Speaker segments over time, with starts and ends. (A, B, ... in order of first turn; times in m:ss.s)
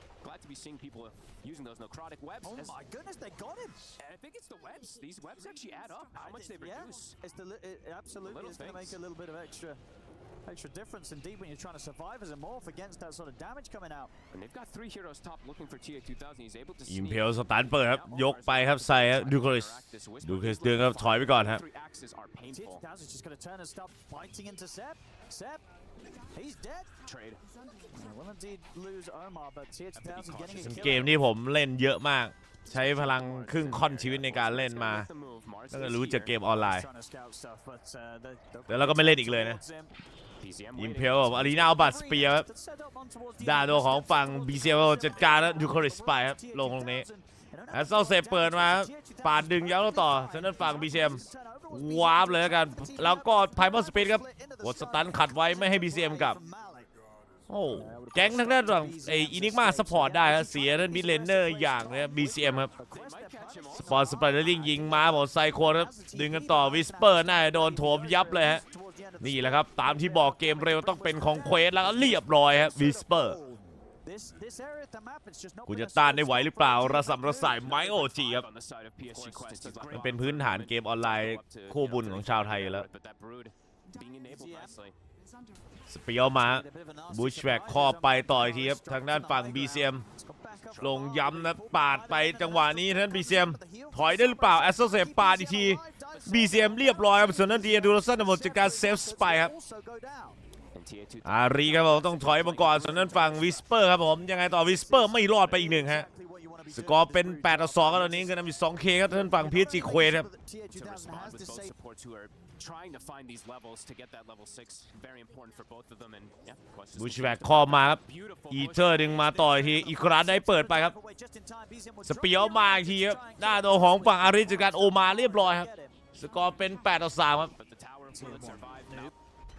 0:00.2-0:02.8 A
0:02.4-0:04.0 B
0:04.0-0:07.2 A
0:06.1-0:09.8 B
0:08.1-0:09.0 A
0:10.5-0:14.1 B
0:14.3-0:22.8 A
0:16.9-0:21.6 C
0:22.5-0:27.0 B
0:27.0-0:27.4 A
0:27.6-0:31.1 B
0:29.9-0:31.2 A
0:30.5-0:35.1 C
0:33.1-0:36.4 A
0:35.7-0:36.9 C
0:36.6-0:39.9 B
0:38.7-0:39.6 C
0:40.4-0:41.6 A
0:40.8-0:42.5 C
0:41.7-0:56.9 B
0:43.4-0:47.1 C
0:47.7-0:56.4 C
0:57.5-1:02.7 C
0:57.8-1:17.8 B
1:02.9-1:04.1 A
1:03.7-1:08.6 C
1:09.2-1:13.4 C
1:15.7-1:18.5 C
1:17.6-1:25.0 A
1:19.9-1:22.8 C
1:24.0-1:24.8 B
1:25.9-1:30.0 C
1:26.4-1:40.4 B
1:30.7-1:31.1 A
1:30.8-1:39.5 C
1:36.1-1:36.6 A
1:40.7-1:43.6 A
1:41.2-1:46.1 C
1:44.8-1:48.4 B
1:46.7-1:50.3 C
1:49.3-1:51.7 B
1:50.7-1:59.6 A
1:57.0-2:00.9 C
1:59.5-2:06.0 B
2:02.0-2:07.5 C
2:07.5-2:09.1 A
2:08.1-2:09.1 B